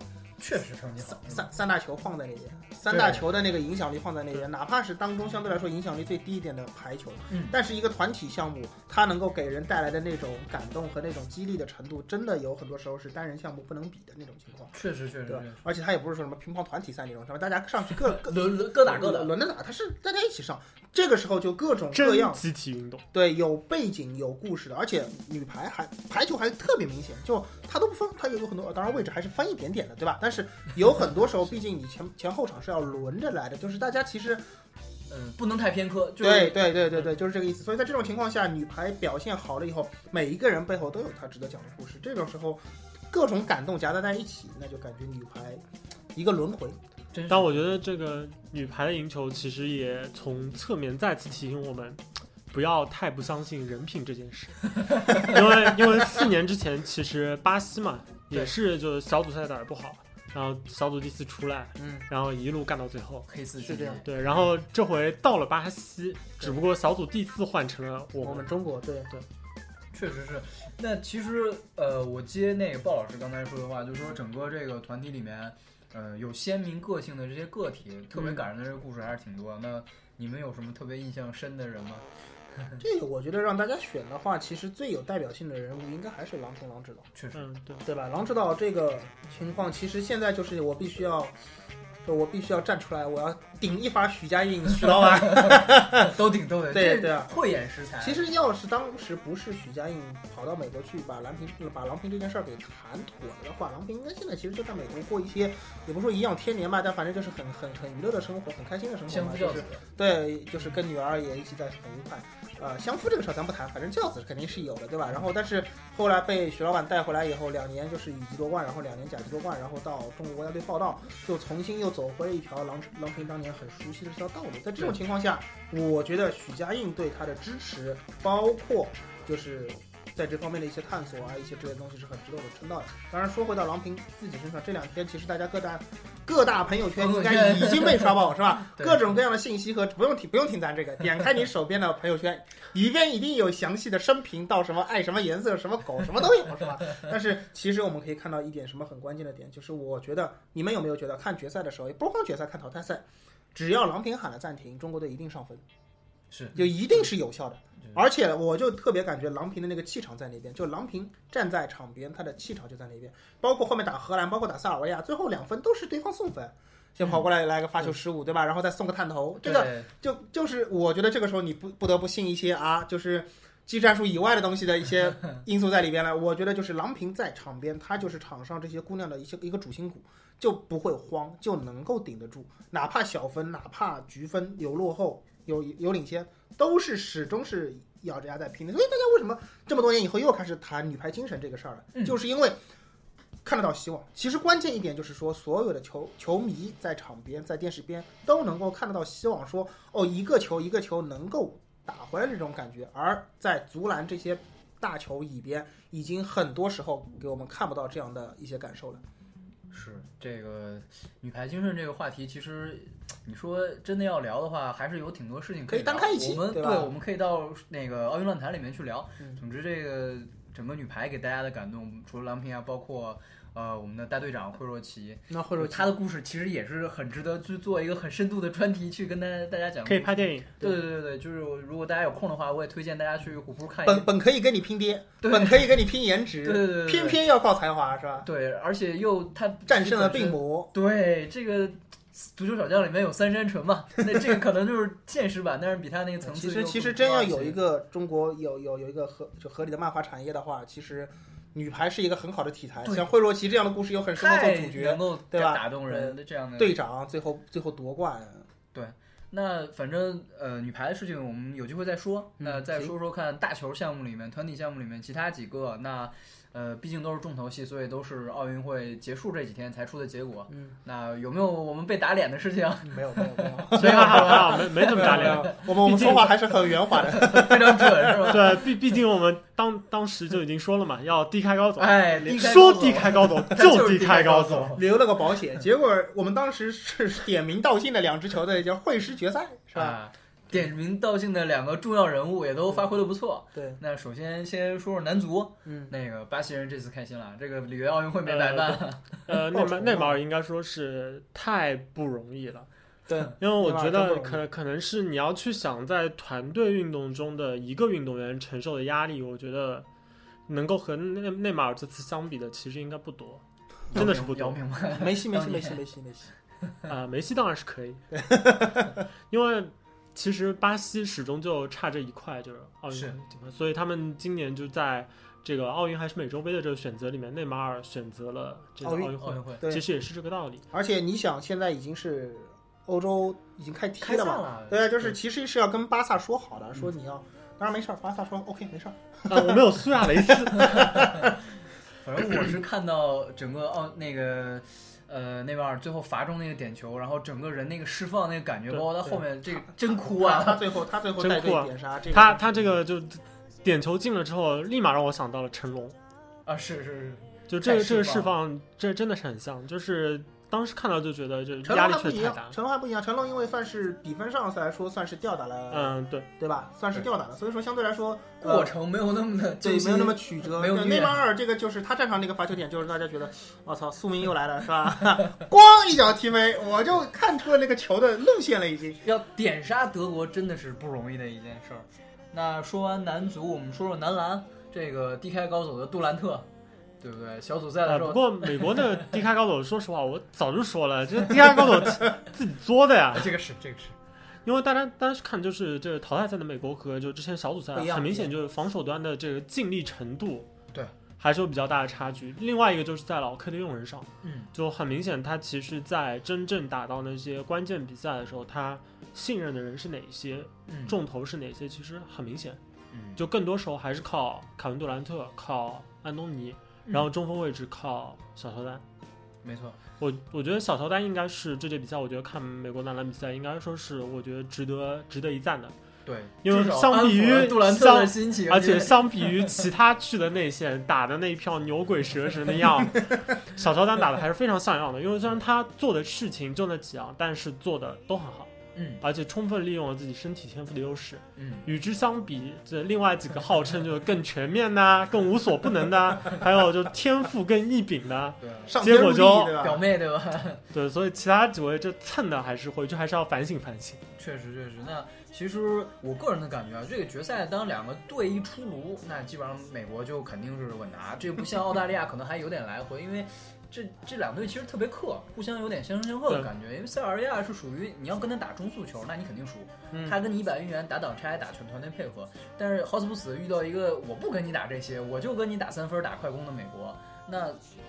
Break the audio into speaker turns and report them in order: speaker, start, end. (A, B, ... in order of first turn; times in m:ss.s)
0:00.4-0:01.5 A
0:01.1-0:14.7 B
0:02.9-0:03.3 A
0:07.3-0:07.6 A
0:14.7-0:15.6 A
0:15.3-0:22.4 B
0:18.0-0:19.3 A
0:21.9-0:23.0 C
0:23.1-0:34.4 B
0:35.1-0:37.1 A
0:36.2-0:45.6 B
0:46.1-0:46.8 B
0:47.1-0:47.6 A
0:47.3-1:03.3 C
0:55.0-0:55.3 A
1:01.8-1:02.0 B
1:03.3-1:04.1 A
1:03.6-1:04.0 B
1:04.0-1:08.5 C
1:08.2-1:09.1 B
1:09.9-1:22.8 A
1:18.1-1:18.4 B
1:22.8-1:27.1 B
1:27.2-1:27.4 A
1:27.3-1:27.8 C
1:27.8-1:31.3 B
1:32.0-1:36.2 B
1:34.9-1:38.2 A
1:36.7-1:37.3 B
1:38.0-2:35.6 B
1:49.1-1:49.8 A
2:17.0-2:19.1 A
2:36.3-2:37.0 A
2:36.5-3:12.6 B
2:49.4-2:49.9 A
3:13.4-3:29.0 B
3:29.7-3:54.1 A
3:35.7-3:36.9 B
3:45.3-3:45.9 B
3:49.8-3:50.6 C
3:53.8-3:58.3 B
3:55.2-3:55.8 A
3:56.4-3:57.2 A
3:58.2-4:07.6 A
3:59.7-4:00.7 B
4:06.2-4:18.5 B
4:12.8-4:13.1 A
4:14.1-4:16.8 A
4:18.7-4:36.2 A
4:22.4-4:22.9 B
4:32.8-4:38.4 B
4:33.7-4:36.3 C
4:36.7-4:38.9 A
4:38.3-4:44.7 C
4:41.8-4:44.8 A
4:42.2-4:42.5 B
4:44.7-4:50.0 B
4:49.7-4:59.2 A
4:55.6-4:55.9 B
4:58.2-5:02.7 C
4:59.5-5:00.2 B
5:03.1-5:04.4 B
5:03.4-5:09.9 C
5:10.5-5:13.4 C
5:13.9-5:15.8 A
5:13.9-5:14.6 C
5:14.9-5:16.3 B
5:16.9-5:18.0 C
5:18.1-5:19.0 B
5:19.3-5:30.6 C
5:28.8-5:29.8 B
5:29.2-5:29.6 A
5:30.7-5:41.3 B
5:34.0-5:35.2 A
5:39.3-5:41.1 C
5:40.9-5:41.4 A
5:42.0-5:50.7 A
5:49.5-5:52.6 B
5:51.2-5:56.0 C
5:56.4-5:58.3 A
5:57.5-6:02.6 C
6:01.6-6:08.7 B
6:05.7-6:06.3 C
6:08.4-6:11.2 A
6:09.6-6:19.0 B
6:19.0-6:26.5 A
6:27.0-6:29.1 A
6:27.8-6:33.4 C
6:33.1-6:34.0 A
6:34.4-6:40.5 C
6:37.7-6:38.3 B
6:41.2-6:52.6 C
6:44.2-6:44.5 A
6:50.7-6:51.0 A
6:52.9-6:53.2 A
6:53.2-6:58.8 C
6:59.4-6:59.8 A
7:00.0-7:05.7 C
7:06.0-7:09.5 A
7:06.4-7:29.6 C
7:18.7-7:19.0 A
7:21.4-7:21.6 A
7:28.4-7:28.8 A
7:28.6-7:29.8 B
7:29.4-7:30.6 A
7:30.7-7:34.0 C
7:34.2-7:57.6 A
7:49.9-7:50.2 B